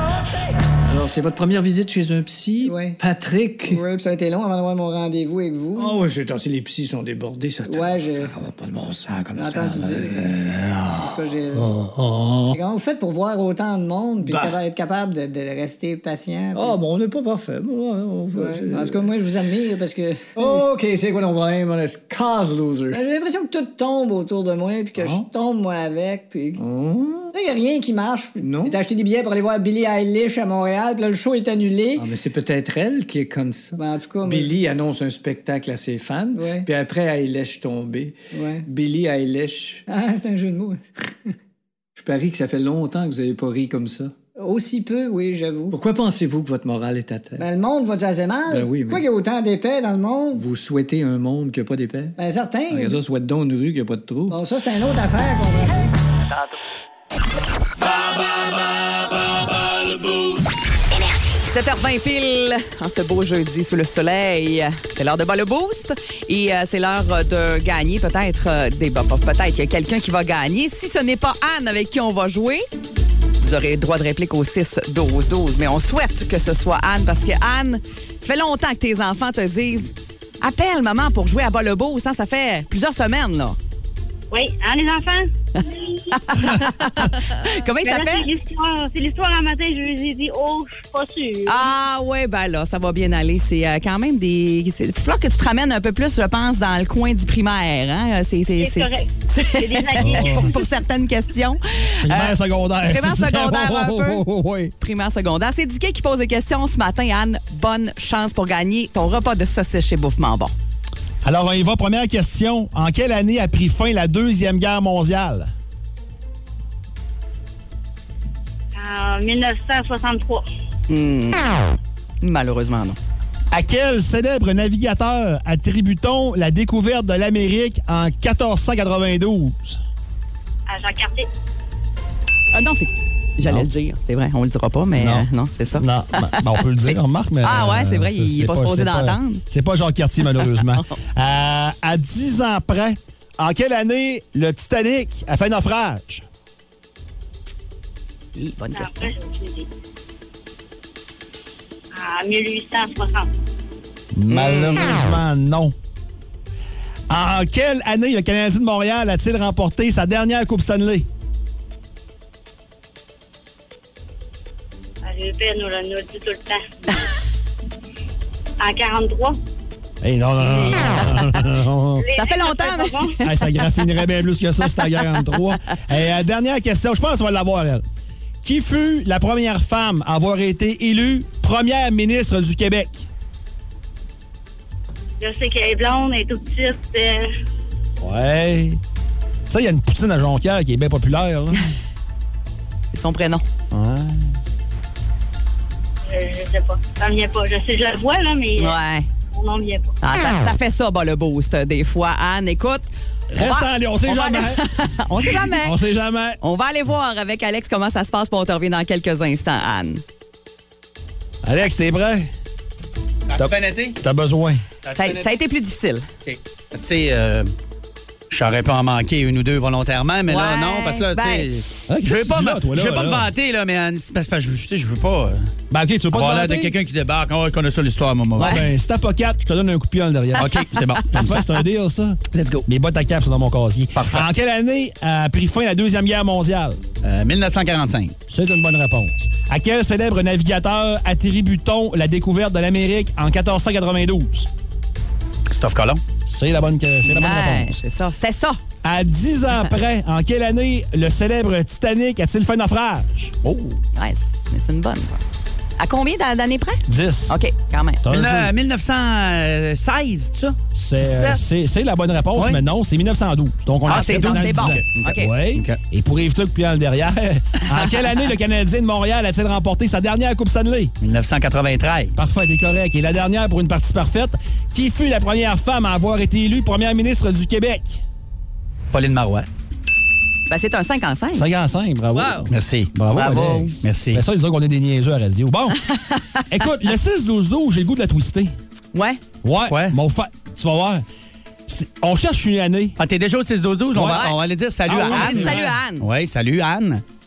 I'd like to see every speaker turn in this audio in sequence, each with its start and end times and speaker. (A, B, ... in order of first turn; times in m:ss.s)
0:00.9-0:03.8 A
0:02.6-0:03.0 B
0:03.6-0:06.0 B
0:05.8-0:12.6 A
0:07.7-0:08.3 B
0:09.4-0:10.3 B
0:11.0-0:11.7 B
0:12.5-0:16.8 B
0:14.2-0:14.6 A
0:16.5-0:19.1 A
0:18.3-0:20.7 B
0:20.3-0:23.0 A
0:22.9-0:26.6 B
0:24.9-0:25.3 A
0:26.6-0:27.3 A
0:27.3-0:32.1 B
0:28.4-0:28.8 A
0:32.0-0:39.8 A
0:33.8-0:34.6 B
0:36.3-0:36.7 B
0:38.3-0:38.7 B
0:39.9-0:40.8 B
0:42.0-0:44.1 A
0:44.4-0:45.8 B
0:45.7-0:47.4 A
0:47.4-0:50.4 B
0:48.5-0:49.0 A
0:50.3-0:52.2 A
0:52.2-0:53.0 B
0:52.7-0:54.4 A
0:54.3-0:55.9 B
0:57.9-1:00.4 C
1:01.5-1:12.6 D
1:13.4-1:23.6 D
1:24.3-1:25.3 E
1:25.6-1:28.3 D
1:27.8-1:31.6 E
1:31.5-1:44.2 D
1:38.6-1:40.5 E
1:40.0-1:40.5 F
1:42.0-1:44.7 F
1:44.8-1:50.5 D
1:51.2-1:55.5 F
1:58.7-2:00.4 E
2:00.9-2:03.0 D
2:03.5-2:09.8 F
2:10.7-2:11.3 E
2:12.5-2:19.4 D
2:13.4-2:13.7 F
2:15.0-2:26.2 F
2:20.4-2:20.9 D
2:28.4-2:29.1 D
2:28.7-2:29.7 E
2:31.9-2:33.3 E
2:34.1-2:35.7 F
2:34.3-2:35.0 D
2:37.1-2:41.1 F
2:45.0-2:47.1 E
2:48.6-2:49.4 E
2:50.0-2:52.0 F
2:52.0-2:53.1 E
2:52.1-2:53.9 D
2:53.2-2:57.8 F
2:54.8-2:55.0 D
2:58.4-3:03.1 F
3:05.2-3:07.3 E
3:08.0-3:08.8 F
3:09.5-3:11.6 F
3:12.9-3:13.4 D
3:13.7-3:14.3 F
3:16.1-3:18.8 E
3:18.6-3:19.1 D
3:19.3-3:19.9 E
3:20.0-3:22.9 D
3:23.3-3:24.6 F
3:23.4-3:25.8 D
3:25.2-3:26.4 F
3:26.4-3:30.0 D
3:31.4-3:32.3 F
3:33.3-3:34.0 C
3:33.4-3:34.6 F
3:34.8-3:35.3 C
3:34.9-3:36.0 D
3:36.2-3:37.5 C
3:38.3-3:45.5 C
3:40.3-3:41.5 D
3:41.9-3:43.3 F
3:45.7-3:46.7 F
3:46.1-3:48.6 C
3:48.4-3:56.8 F
3:50.4-3:51.3 C
3:52.3-3:52.6 C
3:53.9-3:54.2 C
3:57.0-3:58.1 C
3:58.3-4:04.5 F
4:05.5-4:06.0 C
4:06.2-4:07.8 F
4:07.0-4:08.6 D
4:08.8-4:13.4 F
4:13.4-4:13.8 C
4:13.9-4:15.2 D
4:15.8-4:18.0 D
4:16.9-4:17.4 F
4:18.0-4:18.5 F
4:18.1-4:21.4 C
4:20.7-4:30.9 F
4:22.4-4:22.6 C
4:23.9-4:25.8 C
4:23.9-4:25.3 D
4:31.0-4:32.2 C
4:32.2-4:38.0 F
4:38.9-4:39.5 C
4:40.5-4:41.5 D
4:41.3-4:45.8 F
4:42.5-4:42.9 C
4:43.1-4:43.8 D
4:43.8-4:44.2 C
4:45.9-4:46.6 D
4:46.5-4:48.5 F
4:48.9-4:49.2 D
4:49.4-4:51.0 F
4:49.7-4:49.9 C
4:51.7-4:53.0 F
4:53.0-4:57.0 C
4:53.9-4:54.2 F
4:54.1-4:54.3 D
4:54.9-4:55.7 F
4:55.0-4:56.0 D